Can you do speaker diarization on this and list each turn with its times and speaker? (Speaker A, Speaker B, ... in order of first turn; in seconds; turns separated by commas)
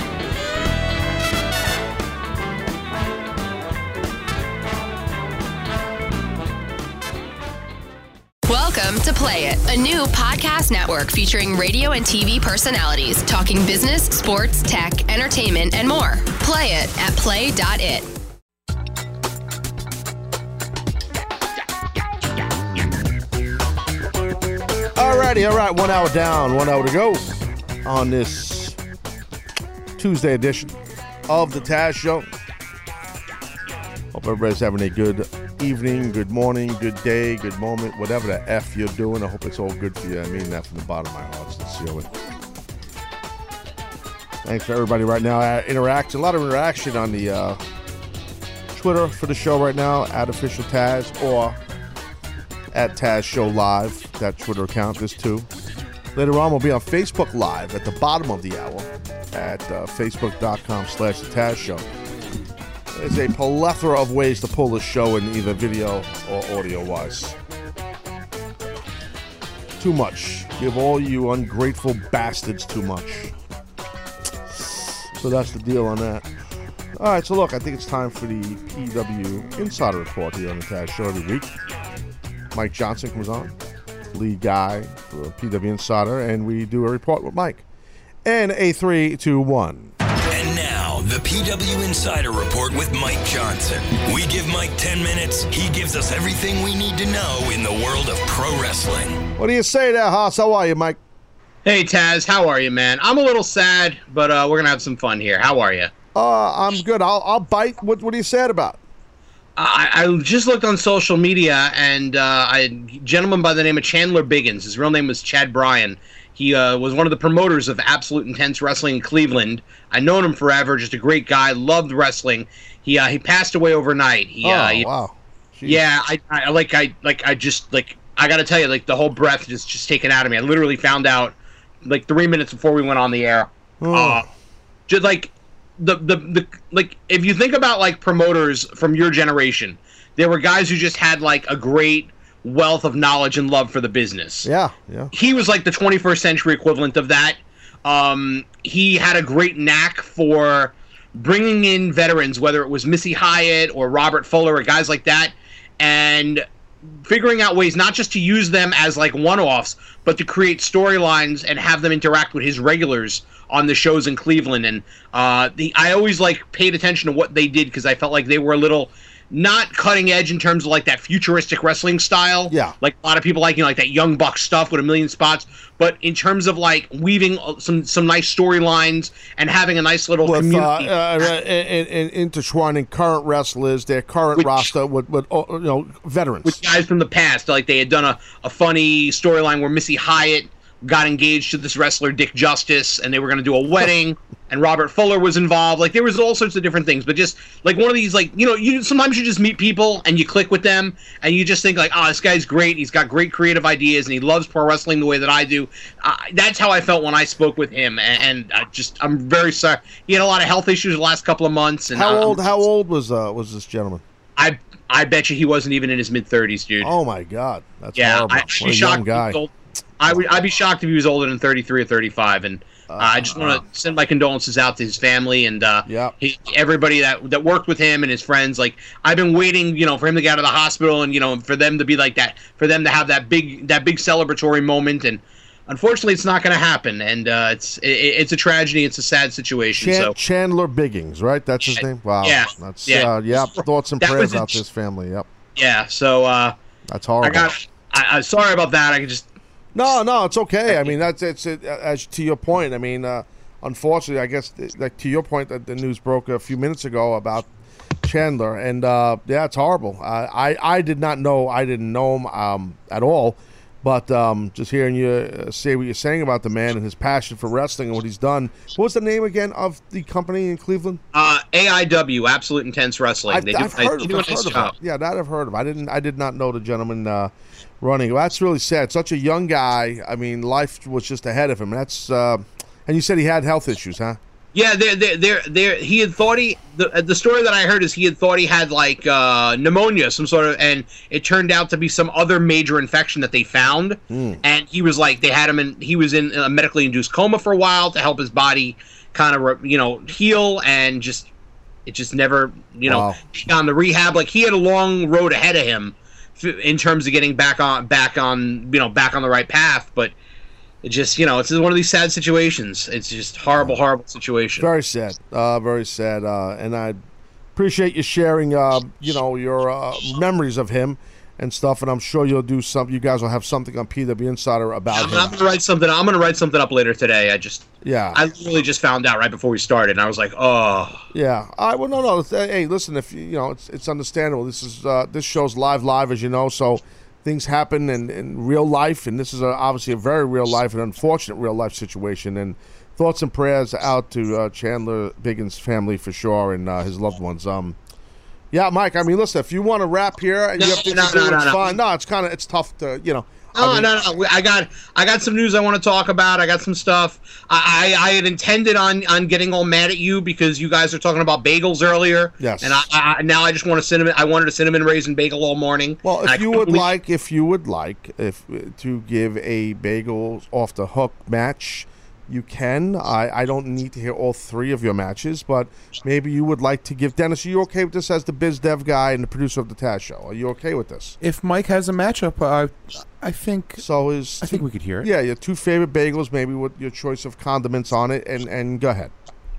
Speaker A: 8.5-18.1, Speaker B: 24.9-27.3, Speaker B: 27.8-28.8, Speaker B: 30.0-32.3, Speaker B: 34.1-42.1, Speaker B: 44.4-47.6, Speaker B: 48.7-51.6, Speaker B: 52.7-55.5, Speaker B: 56.1-61.8, Speaker B: 62.9-67.3, Speaker B: 69.8-73.3, Speaker B: 74.5-76.3, Speaker B: 77.0-81.5, Speaker B: 82.5-83.5, Speaker B: 84.1-87.6, Speaker B: 88.2-89.9, Speaker C: 90.3-99.2, Speaker B: 99.4-101.0, Speaker D: 101.6-105.9, Speaker B: 106.1-108.8, Speaker D: 109.6-124.9, Speaker B: 124.4-125.8, Speaker D: 125.6-134.2, Speaker B: 133.8-134.2, Speaker D: 134.9-144.5, Speaker B: 144.4-145.1, Speaker D: 145.1-156.4, Speaker D: 157.1-181.2, Speaker B: 172.5-172.7, Speaker B: 180.2-186.6, Speaker D: 184.3-184.7, Speaker D: 186.4-212.6, Speaker B: 211.9-214.0, Speaker D: 214.4-216.9, Speaker B: 216.8-219.4, Speaker D: 217.9-240.1, Speaker B: 222.9-223.6, Speaker B: 225.8-226.1, Speaker B: 239.8-245.3, Speaker D: 241.7-244.6, Speaker D: 245.6-246.5, Speaker B: 246.9-247.5, Speaker D: 247.2-249.3, Speaker B: 249.7-257.5, Speaker D: 250.7-250.9, Speaker B: 258.0-271.0, Speaker D: 271.1-274.7, Speaker B: 273.3-284.2, Speaker D: 284.5-301.3, Speaker B: 294.1-294.4, Speaker D: 301.9-310.1, Speaker B: 302.8-303.2, Speaker D: 310.8-314.7, Speaker B: 313.5-313.8, Speaker B: 314.6-317.0, Speaker B: 317.5-325.4, Speaker D: 324.9-331.0, Speaker B: 327.8-328.3, Speaker B: 331.1-347.8, Speaker B: 348.5-354.0, Speaker D: 350.6-351.8, Speaker D: 353.6-366.9, Speaker B: 362.4-362.8, Speaker B: 366.0-381.1, Speaker E: 381.2-383.8, Speaker B: 383.8-389.1, Speaker E: 384.4-385.1